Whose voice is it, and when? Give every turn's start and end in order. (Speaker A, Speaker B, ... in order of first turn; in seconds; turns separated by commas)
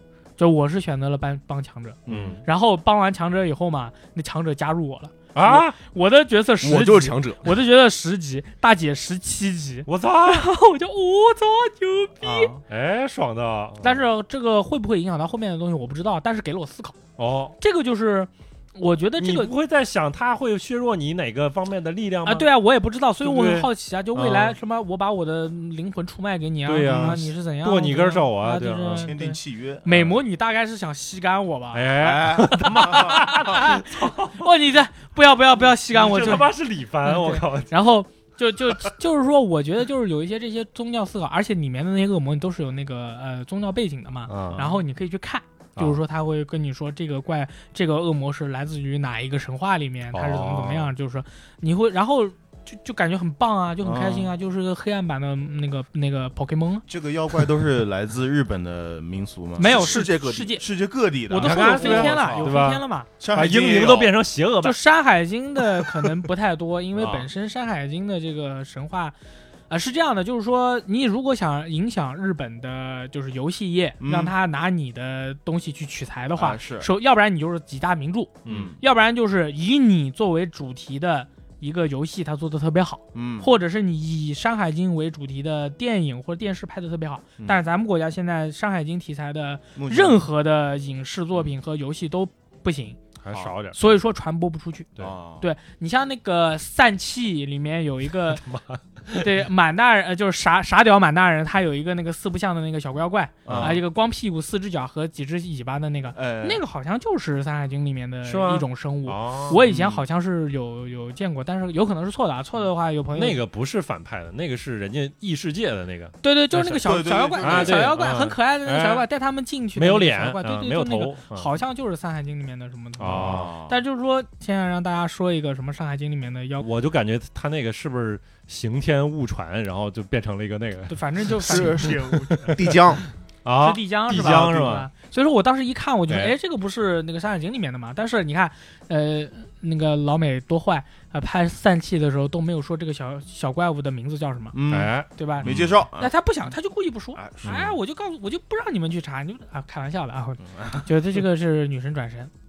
Speaker A: 0.4-12.5, Speaker B: 2.1-2.4, Speaker C: 2.1-2.4, Speaker C: 5.3-5.8, Speaker D: 6.6-7.5, Speaker C: 9.9-10.4, Speaker B: 12.2-12.6, Speaker C: 12.7-14.0, Speaker A: 13.8-17.0, Speaker C: 17.2-17.6, Speaker A: 17.6-19.5, Speaker C: 19.2-22.5, Speaker A: 22.2-56.9, Speaker C: 23.2-24.6, Speaker C: 26.7-29.1, Speaker B: 26.8-27.2, Speaker B: 29.0-29.9, Speaker C: 29.9-30.2, Speaker C: 31.7-34.5, Speaker B: 32.0-33.2, Speaker C: 35.9-37.7, Speaker C: 44.3-44.6, Speaker B: 44.5-44.8, Speaker C: 50.1-50.9, Speaker B: 53.8-54.3, Speaker B: 56.9-62.5, Speaker A: 59.6-60.6, Speaker D: 59.6-60.5, Speaker A: 61.3-63.1, Speaker C: 61.4-64.8, Speaker B: 63.2-64.1, Speaker A: 64.6-69.2, Speaker B: 67.0-67.3, Speaker A: 69.7-93.0, Speaker B: 74.0-74.3, Speaker B: 76.4-76.9, Speaker C: 78.5-78.8, Speaker B: 78.5-78.8, Speaker B: 83.1-83.5, Speaker B: 89.8-90.3, Speaker C: 93.2-93.8, Speaker A: 93.7-98.4, Speaker B: 95.0-95.5, Speaker C: 98.3-99.3, Speaker A: 99.2-113.4, Speaker B: 103.5-103.8, Speaker C: 103.5-103.8, Speaker B: 106.2-106.6, Speaker C: 108.2-109.6, Speaker B: 109.5-110.0, Speaker C: 113.2-116.9, Speaker A: 116.2-126.7, Speaker B: 116.8-117.8, Speaker C: 117.4-119.0, Speaker C: 119.8-121.5, Speaker C: 123.0-123.5, Speaker B: 123.0-123.8, Speaker C: 126.6-132.8, Speaker A: 130.9-132.2, Speaker D: 131.4-133.0, Speaker B: 131.5-132.1, Speaker C: 133.4-134.9, Speaker A: 133.6-144.6, Speaker C: 136.1-136.3, Speaker B: 144.5-146.1, Speaker C: 144.7-145.8, Speaker A: 145.2-152.3, Speaker B: 147.1-147.7, Speaker C: 147.4-147.7, Speaker B: 150.4-150.9